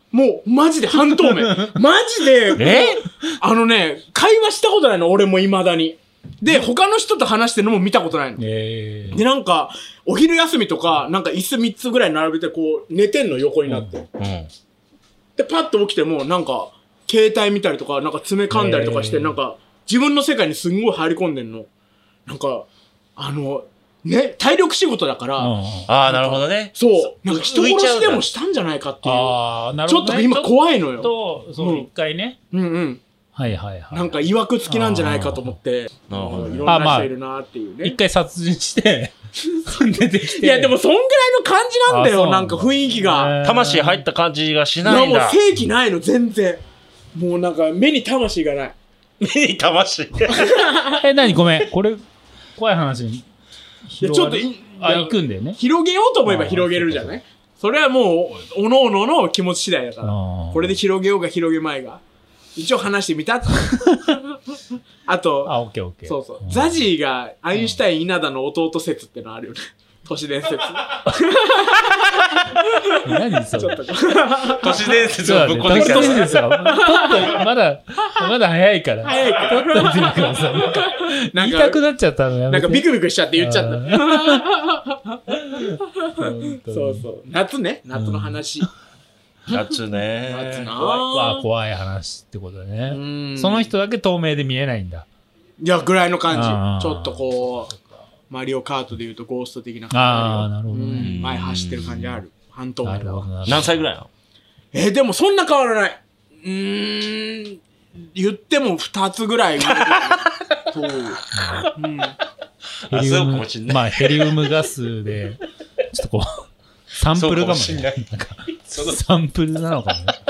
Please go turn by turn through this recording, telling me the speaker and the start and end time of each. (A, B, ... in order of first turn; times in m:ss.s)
0:00.1-0:08.4 A
0:02.6-0:03.0 B
0:08.4-0:09.2 C
0:09.1-0:14.1 A
0:13.7-0:13.9 C
0:14.2-0:14.5 B
0:15.4-0:21.7 A
0:18.5-0:19.4 C
0:22.3-0:25.5 A
0:25.4-0:25.9 C
0:25.9-0:28.2 B
0:26.1-0:31.9 A
0:29.0-0:32.4 C
0:32.5-0:33.0 A
0:33.4-0:35.6 C
0:33.9-0:38.0 A
0:36.1-0:36.7 B
0:36.7-0:37.1 C
0:37.8-0:39.1 C
0:39.6-0:40.8 C
0:40.0-0:43.4 A
0:41.9-0:44.0 C
0:43.4-0:45.4 B
0:44.8-0:46.6 A
0:47.2-0:48.8 A
0:49.2-0:50.6 B
0:50.3-0:51.0 A
0:51.0-0:52.0 C
0:52.6-0:53.3 C
0:53.8-0:55.6 C
0:54.0-1:02.0 A
0:56.2-0:57.2 C
1:00.0-1:00.8 C
1:02.6-1:04.1 A
1:05.1-1:13.0 A
1:05.4-1:06.8 C
1:13.0-1:13.8 C
1:13.5-1:17.5 A
1:14.6-1:16.4 B
1:15.2-1:24.5 C
1:19.0-1:21.8 A
1:22.5-1:28.7 A
1:26.2-1:27.1 C
1:27.9-1:28.7 C
1:29.5-1:31.0 B
1:30.3-1:31.5 A
1:31.0-1:35.1 C
1:32.9-1:33.7 A
1:35.6-1:37.7 A
1:36.3-1:37.8 C
1:38.3-1:43.3 A
1:39.9-1:41.2 C
1:41.0-1:42.2 B
1:42.8-1:43.8 C
1:43.4-1:44.1 B
1:44.7-1:51.2 A
1:49.9-1:50.5 B
1:51.3-1:51.7 C
1:51.8-1:52.2 A
1:52.8-1:54.4 B
1:52.9-2:00.2 C
1:57.1-1:59.0 B